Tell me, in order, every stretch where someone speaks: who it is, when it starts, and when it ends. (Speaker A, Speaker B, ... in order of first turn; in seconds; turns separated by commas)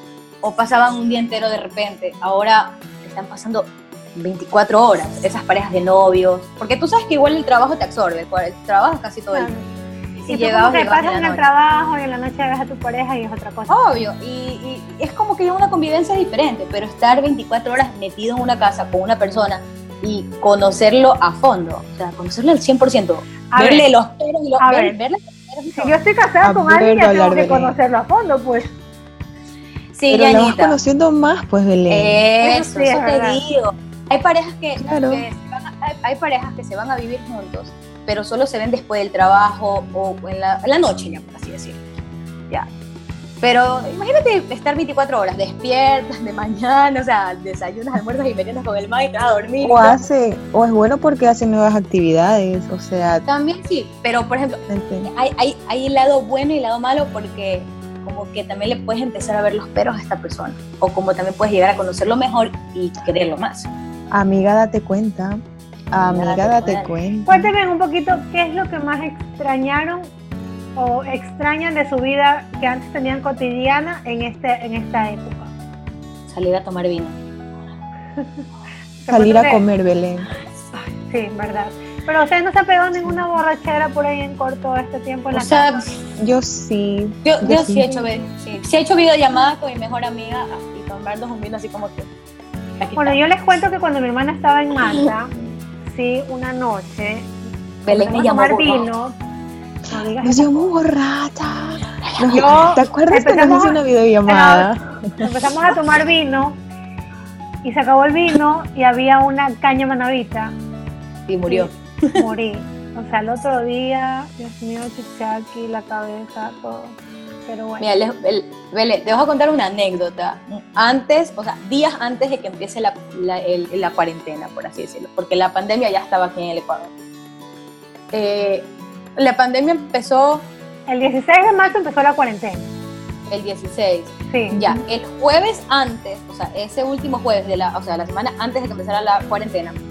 Speaker A: 0.4-9.5, Speaker B: 9.3-9.7, Speaker A: 10.2-11.5, Speaker B: 10.3-13.8, Speaker A: 13.7-26.0, Speaker B: 23.5-23.9, Speaker B: 24.6-24.9, Speaker B: 25.7-28.7, Speaker C: 26.4-27.8, Speaker A: 29.9-30.8, Speaker C: 30.1-32.2, Speaker A: 31.9-41.9, Speaker B: 32.4-33.4, Speaker C: 34.8-35.2, Speaker A: 43.4-50.0, Speaker C: 49.6-53.2, Speaker A: 53.2-63.7, Speaker C: 54.7-55.1, Speaker C: 64.1-65.4, Speaker C: 65.9-67.5, Speaker A: 66.0-66.9, Speaker B: 67.3-70.1, Speaker B: 70.8-75.5, Speaker A: 76.3-77.2, Speaker B: 78.2-78.4, Speaker B: 79.0-79.6, Speaker C: 79.1-80.3, Speaker B: 80.7-85.8, Speaker A: 85.3-86.0, Speaker C: 86.2-87.9, Speaker A: 87.2-92.1, Speaker A: 92.8-93.2, Speaker B: 93.0-99.2, Speaker A: 97.8-98.8, Speaker B: 99.9-100.6, Speaker C: 100.2-105.2, Speaker B: 102.3-106.6, Speaker B: 107.6-110.5, Speaker A: 111.3-112.2, Speaker B: 111.5-117.9, Speaker A: 117.8-126.9, Speaker A: 128.1-130.5, Speaker B: 130.9-132.7, Speaker A: 133.3-139.8, Speaker B: 134.3-134.8